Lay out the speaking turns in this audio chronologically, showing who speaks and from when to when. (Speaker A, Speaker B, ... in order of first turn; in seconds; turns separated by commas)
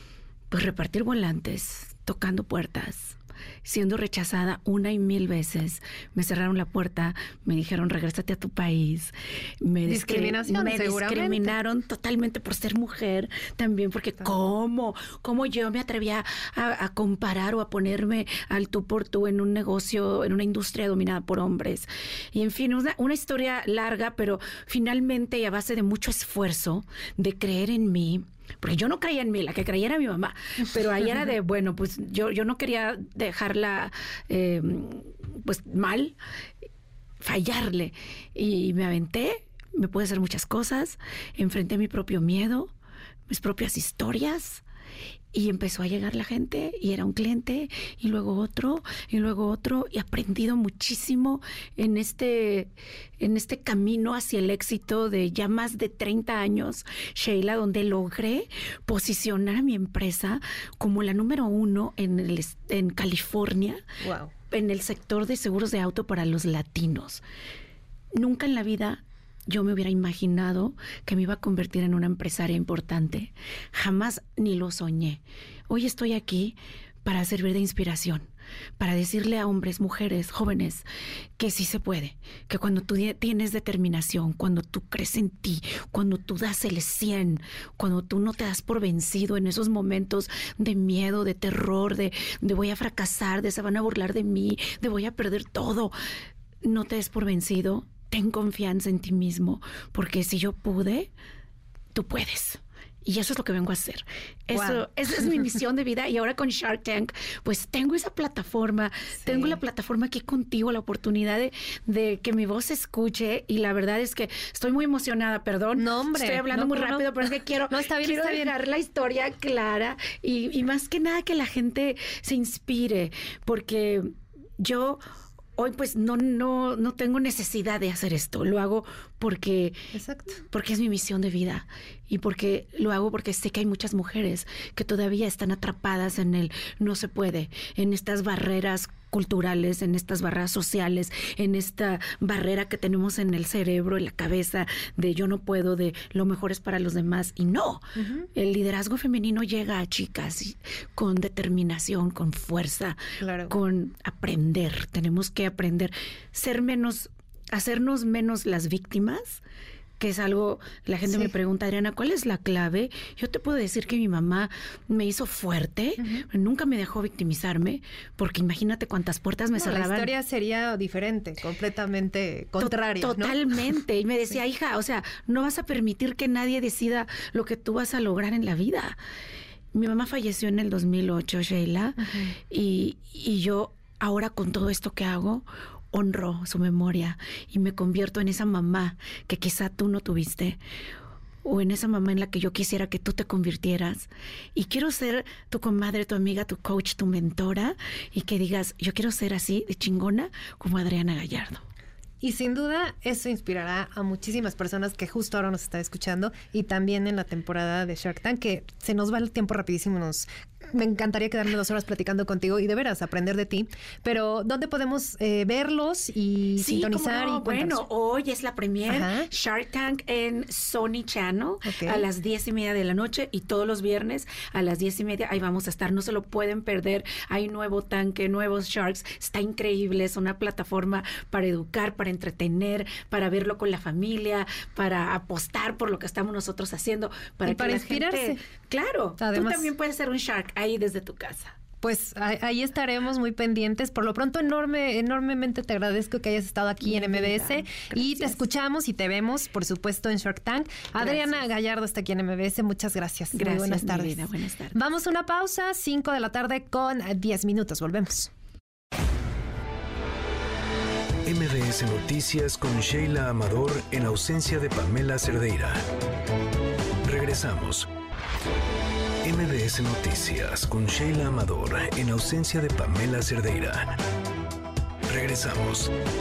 Speaker A: 0.5-36.2, Speaker B: 9.9-11.6, Speaker A: 37.2-42.7, Speaker A: 43.3-44.6, Speaker A: 45.3-63.8, Speaker B: 64.0-64.3, Speaker A: 64.5-67.2, Speaker A: 68.2-80.9, Speaker A: 81.4-96.0, Speaker A: 96.6-101.1, Speaker A: 101.9-125.0, Speaker B: 104.5-105.5, Speaker B: 109.2-109.6, Speaker B: 115.8-118.5, Speaker A: 125.6-129.8, Speaker B: 129.9-130.4, Speaker A: 130.4-159.4, Speaker B: 148.0-148.3, Speaker B: 153.2-153.5, Speaker A: 160.0-170.1, Speaker B: 161.0-161.3, Speaker B: 166.0-166.2, Speaker B: 169.6-173.4, Speaker A: 172.6-179.0, Speaker A: 179.7-190.6, Speaker B: 182.0-182.3, Speaker A: 191.4-201.6, Speaker B: 202.2-217.8, Speaker A: 216.6-241.6, Speaker B: 218.9-219.3, Speaker B: 221.7-222.1, Speaker B: 237.4-238.4, Speaker B: 239.2-239.7, Speaker B: 241.8-258.3, Speaker A: 246.8-248.5, Speaker A: 251.0-251.4, Speaker A: 253.3-254.8, Speaker C: 261.3-265.8, Speaker C: 267.0-267.9, Speaker C: 269.2-274.0, Speaker C: 275.1-275.9